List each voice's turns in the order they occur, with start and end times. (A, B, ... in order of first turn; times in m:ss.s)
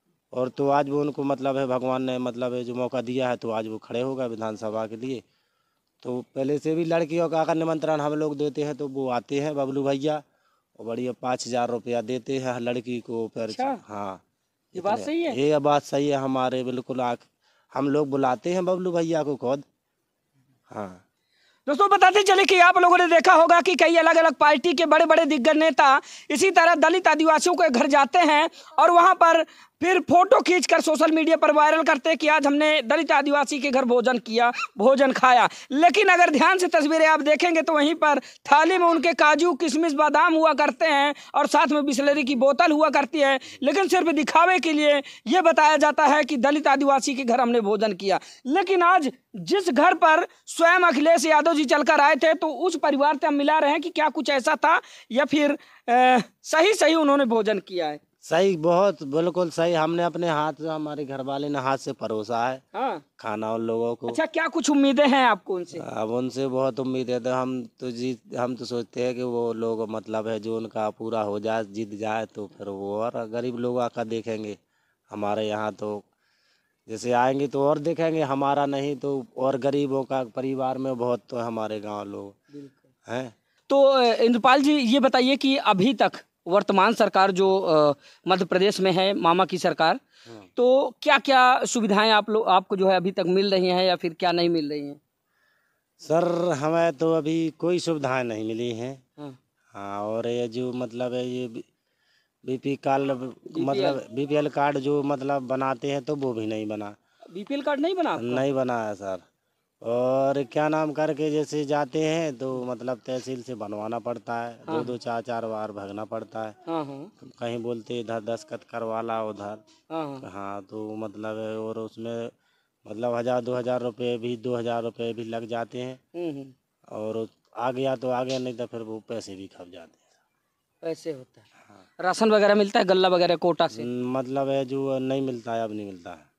0:00.3-0:05.2 A
0:06.0-0:10.2 A
0:10.8-0:14.2 A
0:13.5-0:13.8 B
0:14.7-0:19.6 A
0:14.7-0:15.4 B
0:20.7-0:21.0 A
0:21.7-0:58.0 B
0:58.2-1:02.6 A
1:02.7-1:03.0 B
1:03.2-1:04.2 A
1:04.1-1:05.8 B
1:05.7-1:14.6 A
1:15.1-1:16.1 A
1:16.9-1:22.4 A
1:22.5-1:22.8 B
1:23.1-1:23.3 A
1:23.7-1:30.0 B
1:30.6-1:35.0 B
1:36.0-1:39.0 A
1:39.7-1:41.6 A
1:42.4-1:47.0 A
1:43.5-1:44.0 B
1:47.3-1:48.4 B
1:48.2-1:49.2 A
1:49.8-1:56.6 A
1:56.6-1:57.1 B
1:57.2-1:59.6 A
1:59.9-2:00.2 B
2:00.2-2:02.3 A
2:02.8-2:06.0 A
2:06.1-2:06.5 B
2:06.9-2:10.1 A
2:10.8-2:11.4 B
2:12.0-2:13.9 B
2:13.7-2:16.3 A